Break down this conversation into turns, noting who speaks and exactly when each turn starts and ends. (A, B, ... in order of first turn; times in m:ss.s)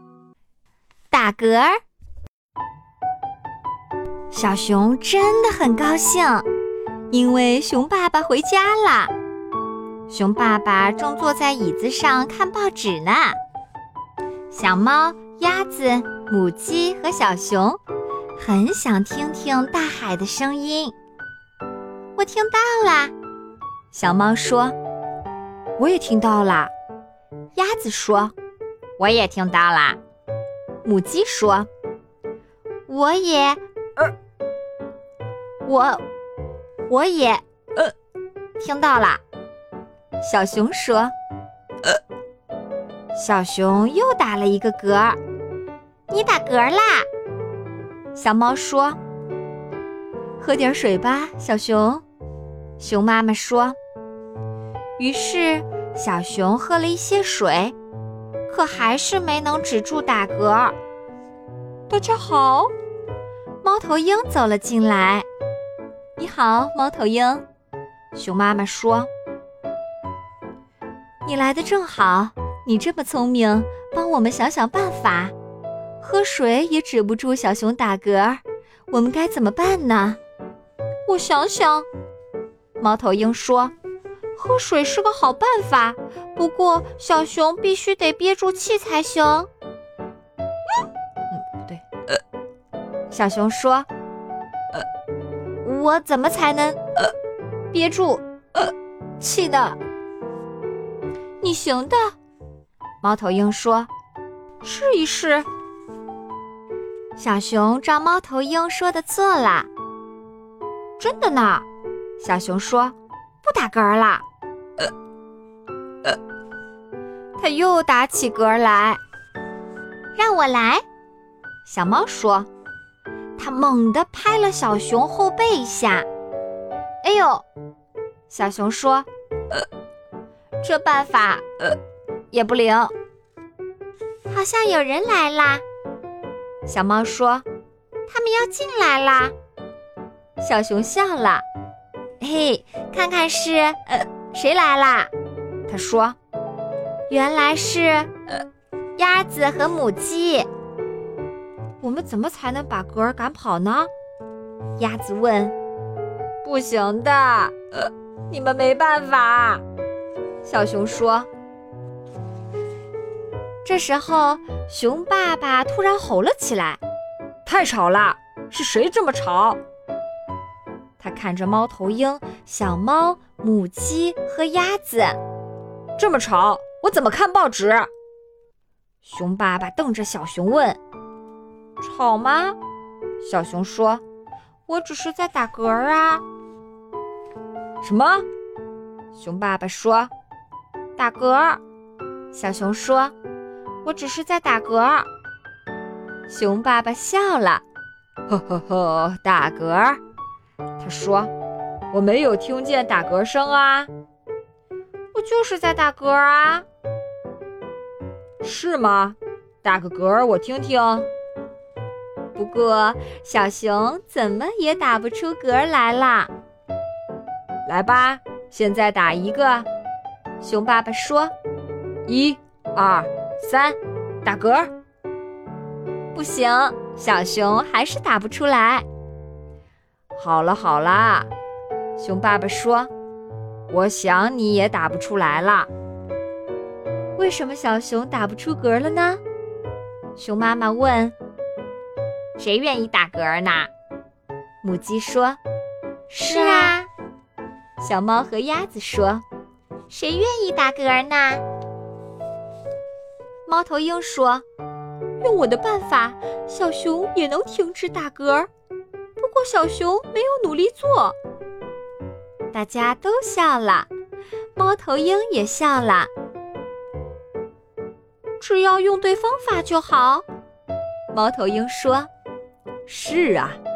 0:01.1-0:01.8 A
0:04.3-0:06.5 A
0:07.1-0:09.1 A
0:10.1-0:13.4 A
0:14.5-0:17.8 A
0:18.4-0:20.9 A
0:22.1-0:23.1 A
0:23.9-0:24.7 A
0:25.8-0:26.7 A
0:27.6-0:28.3 A
0:29.0-0:30.0 A
0:30.8-0:31.7 A
0:32.9-0:34.1 A
0:35.6-0:36.0 A
0:36.9-0:37.9 A
0:38.6-0:39.2 A
0:40.2-0:41.1 A
0:43.1-0:45.2 A
0:46.1-0:47.1 A
0:48.1-0:49.0 A
0:50.4-0:52.0 A
0:52.8-0:53.8 A
0:55.0-0:57.7 A
0:58.5-1:00.7 A
1:01.9-1:02.7 A
1:03.6-1:05.3 A
1:06.2-1:07.4 A
1:08.1-1:09.1 A
1:11.2-1:15.3 A
1:16.0-1:20.2 A
1:21.1-1:21.9 A
1:22.8-1:23.7 A
1:24.4-1:29.5 A
1:31.3-1:31.8 A
1:33.1-1:33.9 A
1:35.6-1:36.8 A
1:37.7-1:39.8 A
1:41.4-1:42.1 A
1:43.0-1:43.9 A
1:44.6-1:45.5 A
1:47.2-1:49.7 A
1:51.0-1:51.6 A
1:52.2-1:54.2 A
1:57.4-1:59.0 A
2:00.1-2:00.8 A
2:01.6-2:02.5 A
2:03.4-2:06.0 A
2:07.0-2:07.4 A
2:08.3-2:09.1 A
2:10.6-2:11.8 A
2:12.3-2:12.9 A
2:14.3-2:15.6 A
2:16.6-2:17.4 A
2:18.1-2:19.3 A
2:20.4-2:21.4 A
2:22.2-2:25.1 A
2:25.7-2:26.2 A
2:27.1-2:28.1 A
2:29.0-2:30.5 A
2:31.8-2:33.9 A
2:34.8-2:35.5 A
2:36.4-2:39.6 A
2:40.4-2:41.3 A
2:43.6-2:46.8 A
2:47.4-2:49.6 A
2:51.0-2:55.2 A
2:56.0-2:57.9 A
2:59.0-3:00.8 A
3:01.8-3:02.6 A
3:03.2-3:04.0 A
3:04.7-3:06.2 A
3:07.8-3:08.2 A
3:09.1-3:10.1 A
3:11.0-3:11.6 A
3:12.3-3:13.1 A
3:13.8-3:15.1 A
3:16.3-3:17.6 A
3:18.3-3:20.0 A
3:20.8-3:21.3 A
3:21.9-3:23.9 A
3:25.1-3:26.6 A
3:28.4-3:31.1 A
3:32.3-3:36.3 A
3:37.6-3:39.7 A
3:40.4-3:41.3 A
3:42.0-3:44.7 A
3:46.1-3:48.8 A
3:50.1-3:51.3 A
3:52.0-3:52.9 A
3:53.7-3:55.7 A
3:57.2-3:59.2 A
4:00.2-4:01.1 A
4:02.4-4:03.7 A
4:04.6-4:05.4 A
4:06.1-4:06.9 A
4:07.8-4:09.2 A
4:09.9-4:11.4 A
4:13.4-4:14.4 A
4:15.2-4:18.5 A
4:19.2-4:21.2 A
4:22.5-4:23.9 A
4:24.6-4:26.1 A
4:28.4-4:30.2 A
4:31.1-4:32.1 A
4:32.9-4:33.6 A